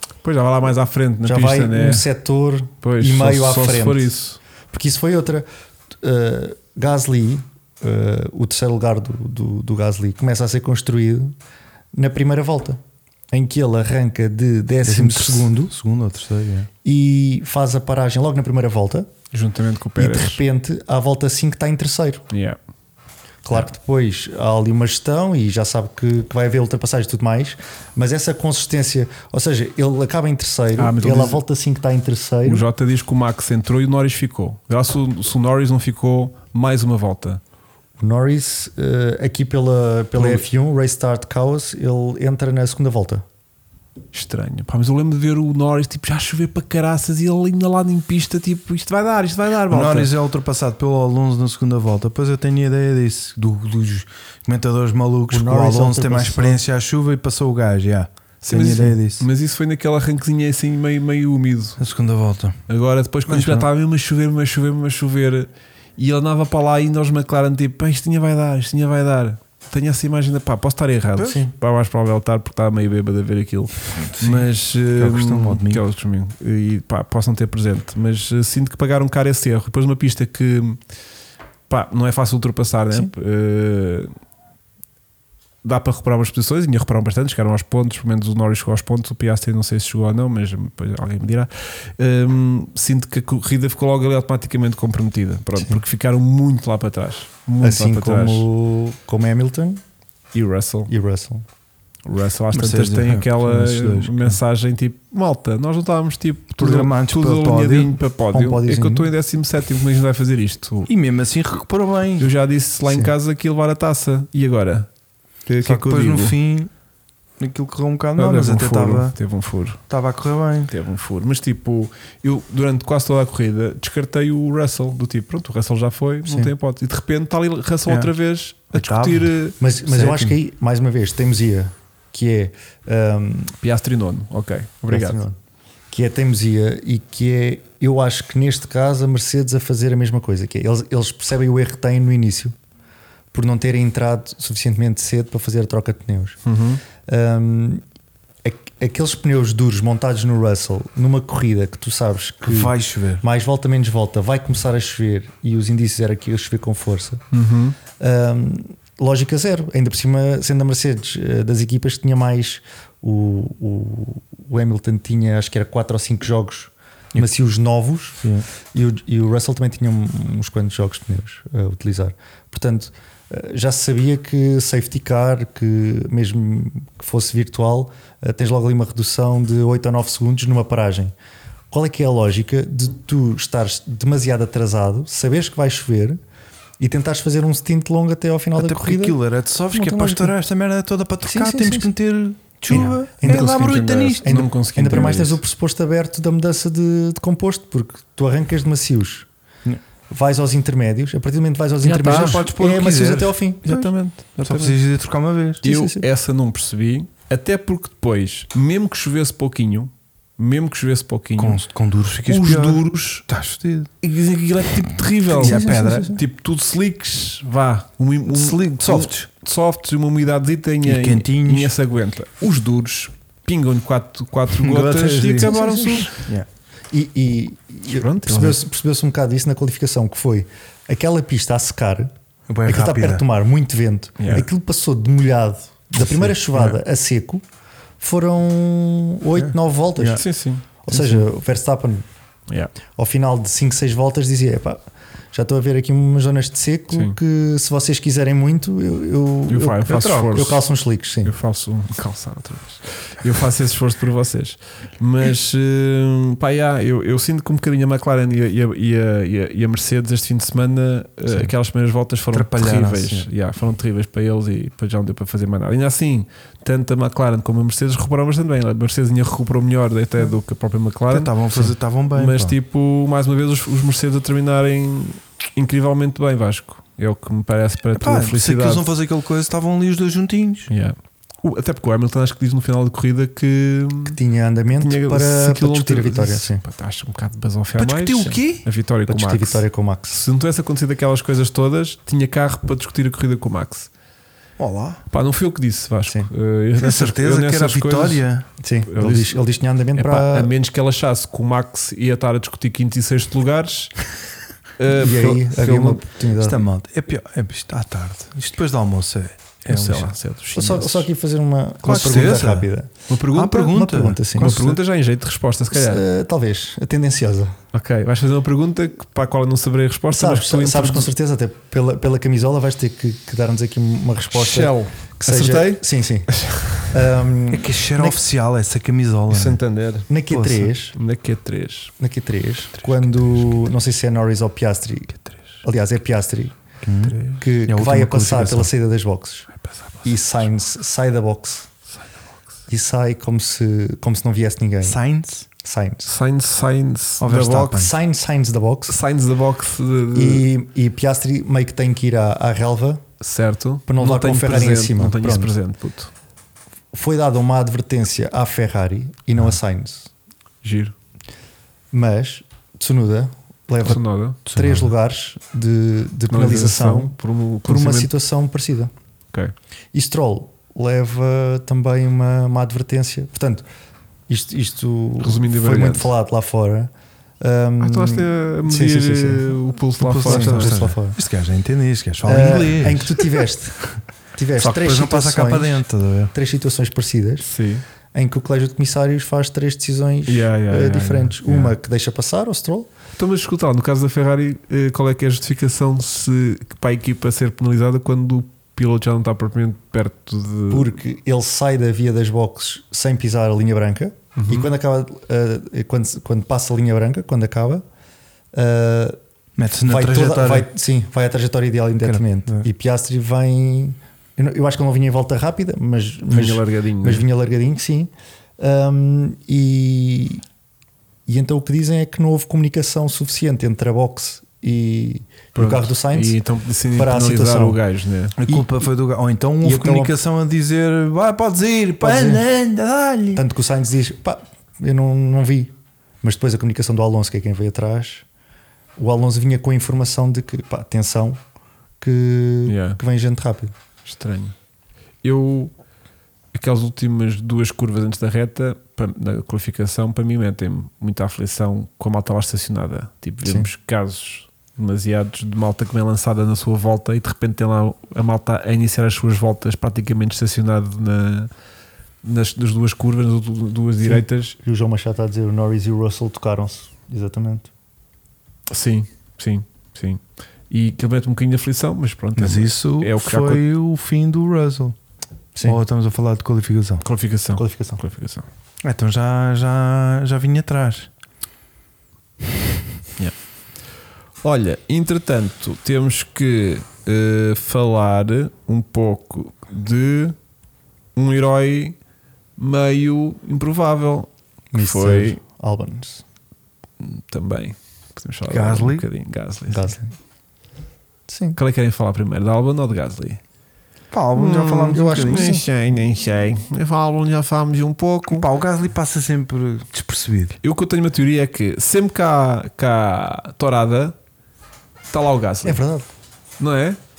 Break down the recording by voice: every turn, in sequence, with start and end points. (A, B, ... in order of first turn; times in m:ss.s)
0:00.2-0:02.0 A
0:01.2-0:04.1 B
0:02.8-0:04.4 A
0:04.7-0:05.5 B
0:06.0-0:11.3 B
0:11.9-0:12.8 B
0:13.3-0:15.7 B
0:14.8-0:16.7 C
0:16.8-0:19.1 B
0:19.3-0:20.4 A
0:20.0-0:22.2 B
0:22.3-0:22.6 A
0:23.4-0:32.6 B
0:30.8-0:31.4 A
0:32.4-0:37.4 A
0:38.0-0:43.2 B
0:44.1-0:50.1 A
0:49.7-0:59.2 C
0:55.3-0:56.6 B
0:58.4-1:01.8 A
1:01.8-1:02.6 C
1:02.7-1:20.8 A
1:03.3-1:03.6 C
1:11.2-1:11.5 C
1:13.9-1:15.8 C
1:21.7-1:24.1 A
1:25.6-1:38.5 A
1:37.6-1:39.8 B
1:40.3-1:40.9 A
1:40.9-1:41.4 B
1:42.0-1:50.9 A
1:42.5-1:44.4 C
1:46.6-1:47.9 C
1:48.3-1:49.1 B
1:50.9-1:52.3 C
1:52.2-1:54.9 A
1:52.8-1:53.1 B
1:55.5-1:56.4 A
1:55.6-1:56.7 C
1:57.4-1:59.1 C
1:58.2-1:59.8 A
1:59.9-2:00.7 C
2:00.7-2:09.6 A
2:06.2-2:06.5 B
2:08.7-2:09.3 C
2:09.6-2:13.5 B
2:09.8-2:10.4 C
2:13.6-2:15.2 A
2:14.9-2:15.4 B
2:15.9-2:22.5 B
2:23.3-2:26.4 B
2:26.4-2:26.8 A
2:27.0-2:27.8 B
2:28.4-2:37.2 B
2:32.4-2:33.2 C
2:37.3-2:37.8 A
2:38.0-3:01.1 B
3:01.7-3:06.2 B
3:06.8-3:09.2 B
3:08.6-3:14.3 C
3:09.7-3:10.3 B
3:11.2-3:11.9 B
3:12.7-3:13.6 B
3:13.2-3:15.4 A
3:14.2-3:19.3 B
3:20.1-3:23.6 B
3:21.8-3:22.5 A
3:22.0-3:25.6 C
3:23.6-3:24.8 A
3:25.6-3:31.6 A
3:25.6-3:26.0 B
3:31.4-3:33.9 C
3:32.2-3:33.2 A
3:34.0-3:46.1 A
3:35.3-3:36.2 C
3:35.4-3:36.2 B
3:38.3-3:39.3 C
3:40.8-3:41.7 C
3:44.6-3:46.5 C
3:45.4-3:46.1 B
3:46.9-3:52.1 B
3:47.9-3:48.6 A
3:52.5-3:53.2 C
3:52.6-3:57.4 B
3:54.2-3:54.4 A
3:56.0-3:56.3 C
3:58.0-4:00.2 B
3:59.3-4:00.2 C
4:00.2-4:01.2 A
4:00.8-4:02.0 B
4:02.9-4:11.3 B
4:06.9-4:07.2 A
4:09.5-4:10.6 A
4:11.2-4:38.9 A
4:22.3-4:23.3 C
4:31.1-4:32.5 C
4:37.9-4:40.7 C
4:40.7-4:44.2 A
4:44.1-4:46.6 B
4:44.8-4:53.9 A
4:47.8-4:48.6 C
4:49.1-4:50.2 B
4:54.6-4:55.0 C
4:55.1-4:58.2 A
4:56.8-4:58.5 C
4:58.6-5:00.5 B
4:58.9-4:59.4 A
4:59.9-5:03.9 A
5:04.8-5:06.0 A
5:04.9-5:06.6 B
5:06.4-5:10.1 C
5:09.7-5:11.1 A
5:10.5-5:12.9 B
5:11.8-5:12.4 A
5:11.8-5:12.7 C
5:13.1-5:13.8 A
5:13.3-5:14.8 C
5:13.7-5:14.6 B
5:14.4-5:16.0 A
5:15.7-5:17.6 B
5:17.7-5:21.1 A
5:20.1-5:26.4 B
5:24.3-5:27.0 A
5:26.9-5:28.2 B
5:27.5-5:29.6 C
5:29.3-5:30.1 A
5:30.1-5:31.0 B
5:30.3-5:30.7 C
5:30.9-5:31.9 A
5:32.0-5:36.6 B
5:36.8-5:38.7 C
5:37.0-5:37.4 A
5:37.4-5:39.5 B
5:40.0-5:41.7 B
5:42.7-5:45.0 B
5:44.8-5:45.5 C
5:45.6-5:46.1 B
5:46.0-5:47.8 A
5:47.2-5:47.9 C
5:47.7-5:48.9 B
5:48.9-5:50.5 A
5:50.1-5:53.0 B
5:53.2-5:56.1 A
5:53.9-5:55.5 B
5:56.9-6:00.1 B
6:00.6-6:00.9 A
6:01.9-6:07.1 B
6:03.8-6:04.4 A
6:04.5-6:04.9 C
6:06.3-6:08.1 A
6:07.6-6:08.9 B
6:09.9-6:13.6 B
6:14.3-6:19.6 B
6:15.2-6:16.1 A
6:17.8-6:20.9 A
6:20.0-6:23.3 C
6:20.2-6:21.2 B
6:22.2-6:27.5 B
6:24.6-6:26.3 C
6:27.4-6:27.8 A
6:28.1-6:32.9 B
6:30.3-6:31.7 A
6:33.2-6:40.9 A
6:40.7-6:47.8 B
6:44.3-6:44.7 A
6:48.5-6:49.2 B
6:49.6-6:50.7 C
6:49.9-7:00.4 B
6:52.0-6:52.7 C
6:56.3-6:57.2 A
7:01.3-7:06.4 B
7:05.5-7:08.4 A
7:06.9-7:07.8 B
7:08.4-7:13.4 C
7:09.6-7:10.1 B
7:12.0-7:12.4 B
7:13.3-7:18.2 B
7:19.0-7:21.4 B
7:22.0-7:23.7 B
7:22.6-7:23.0 A
7:24.0-7:24.6 A
7:25.2-7:25.7 A
7:26.5-7:41.5 A
7:42.2-7:44.6 A
7:44.0-7:47.7 B
7:48.7-7:53.6 A
7:52.4-7:55.0 C
7:55.5-7:55.8 B
7:55.6-7:57.0 C
7:57.0-7:58.5 A
7:57.5-7:58.0 B
7:58.8-8:01.1 C
8:04.4-8:10.4 A
8:11.1-8:12.0 A
8:12.6-8:15.4 A
8:14.7-8:16.2 B
8:17.0-8:20.0 A
8:18.5-8:19.0 C
8:19.7-8:20.1 B
8:21.3-8:21.6 B
8:21.6-8:23.4 A
8:24.1-8:25.6 C
8:24.3-8:28.4 A
8:24.9-8:25.6 B
8:28.3-8:30.6 C
8:30.6-8:34.2 A
8:35.1-8:35.8 A
8:35.6-8:36.1 B
8:36.6-8:37.0 A